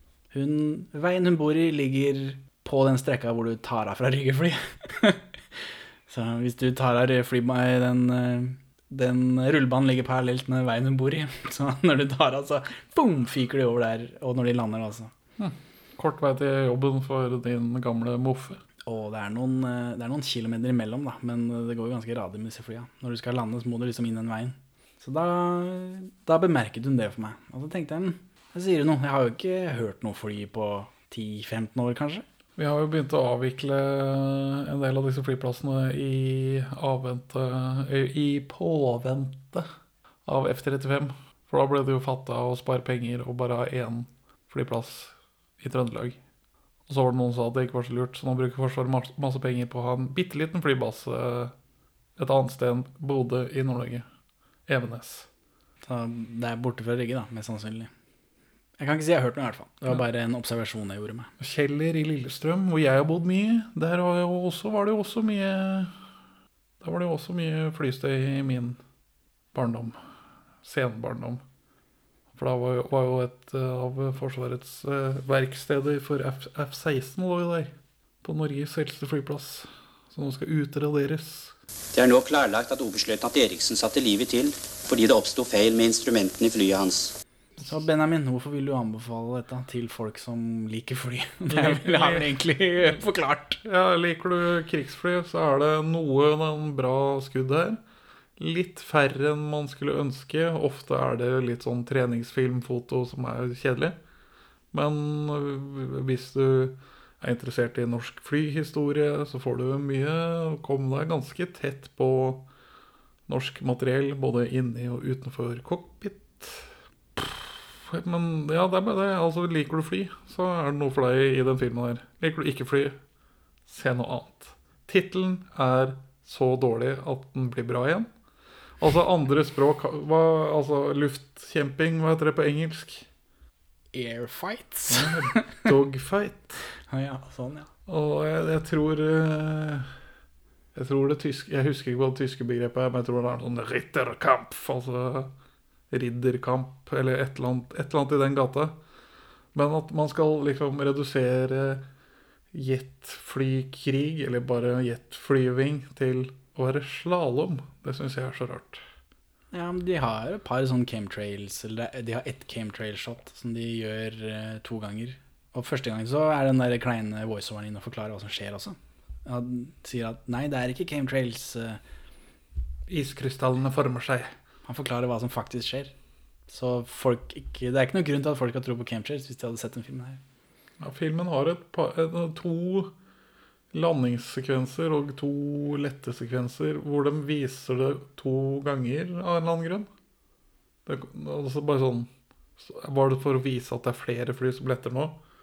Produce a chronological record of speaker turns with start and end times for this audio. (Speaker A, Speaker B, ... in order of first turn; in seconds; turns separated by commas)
Speaker A: 0.3-15.1, Speaker B: 15.4-18.6, Speaker A: 18.9-32.2, Speaker B: 32.6-39.7, Speaker B: 40.3-46.2, Speaker B: 46.9-51.5, Speaker B: 52.2-54.0, Speaker B: 54.7-55.3, Speaker A: 55.8-57.9, Speaker A: 58.8-61.3, Speaker B: 61.4-66.0, Speaker B: 66.8-68.8, Speaker B: 69.5-70.0, Speaker B: 70.6-71.4, Speaker B: 72.3-81.5, Speaker C: 82.0-87.1, Speaker A: 87.6-93.6, Speaker B: 91.5-93.0, Speaker B: 93.6-97.8, Speaker B: 98.4-104.0, Speaker B: 104.7-112.5, Speaker B: 113.3-123.0, Speaker B: 123.7-128.1, Speaker B: 128.8-133.1, Speaker A: 133.9-135.7, Speaker B: 134.9-136.7, Speaker A: 136.9-137.7, Speaker B: 137.9-139.9, Speaker B: 140.8-145.3, Speaker B: 145.9-148.8, Speaker B: 149.5-151.8, Speaker B: 152.5-158.8, Speaker A: 159.5-171.8, Speaker B: 172.9-174.3, Speaker A: 174.7-175.9, Speaker A: 176.5-180.2, Speaker B: 180.8-182.9, Speaker B: 183.7-189.9, Speaker B: 190.9-195.2